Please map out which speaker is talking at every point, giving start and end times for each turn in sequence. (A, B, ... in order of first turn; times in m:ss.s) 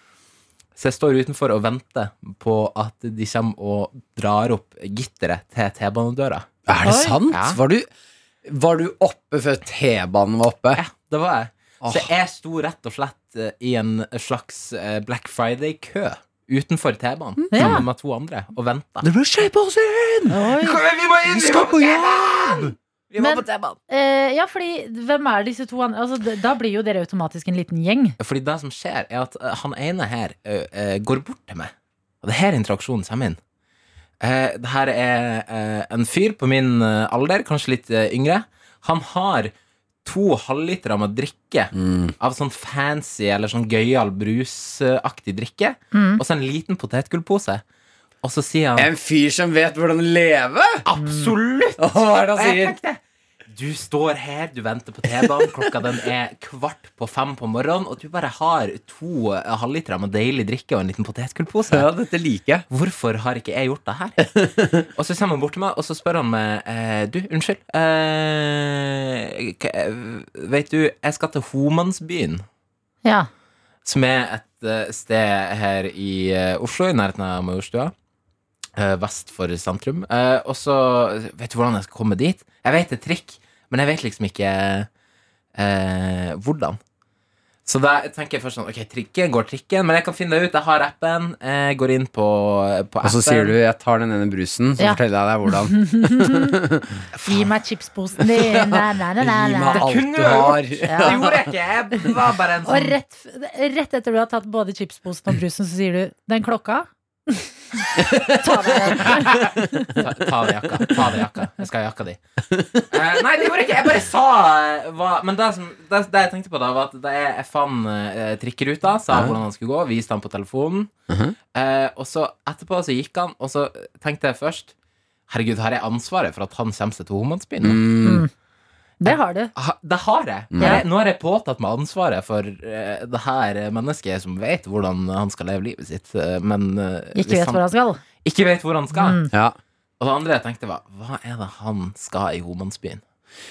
0:00.8-0:06.6 A
0:06.7-0:07.9 B
0:06.8-0:07.2 C
0:07.3-0:07.6 A
0:08.4-0:10.8 B
0:10.7-0:19.1 A
0:11.8-0:12.1 B
0:17.4-0:17.8 B
0:17.5-0:17.8 C
0:19.0-0:23.8 B
0:20.3-0:20.8 C
0:20.8-0:22.7 A
0:23.2-0:28.2 C
0:28.2-0:33.4 A
0:34.2-0:39.5 A
0:40.0-0:47.6 A
0:41.8-0:42.1 B
0:45.9-0:46.2 C
0:48.2-0:48.9 A
0:48.8-0:50.8 B
0:50.8-1:01.9 A
0:51.8-0:52.8 B
1:01.7-1:02.6 B
1:02.7-1:04.3 A
1:04.3-1:04.8 B
1:05.0-1:12.4 A
1:13.8-1:17.9 A
1:18.8-1:24.9 A
1:25.6-1:26.8 A
1:27.7-1:33.6 A
1:33.0-1:37.0 B
1:34.8-1:36.6 C
1:37.1-1:37.5 A
1:37.3-1:39.9 C
1:38.2-1:42.4 B
1:39.7-1:42.9 A
1:40.8-1:41.2 C
1:42.7-1:47.5 C
1:48.0-1:50.0 B
1:48.4-1:49.5 C
1:50.0-1:52.2 A
1:52.9-2:00.9 A
2:01.1-2:01.4 B
2:01.5-2:04.7 A
2:05.3-2:07.8 A
2:07.6-2:08.3 B
2:08.0-2:08.3 C
2:09.0-2:09.5 C
2:09.1-2:17.6 A
2:10.5-2:10.8 B
2:17.2-2:18.0 C
2:18.2-2:19.2 A
2:18.9-2:19.3 C
2:19.3-2:19.6 B
2:20.0-2:23.0 A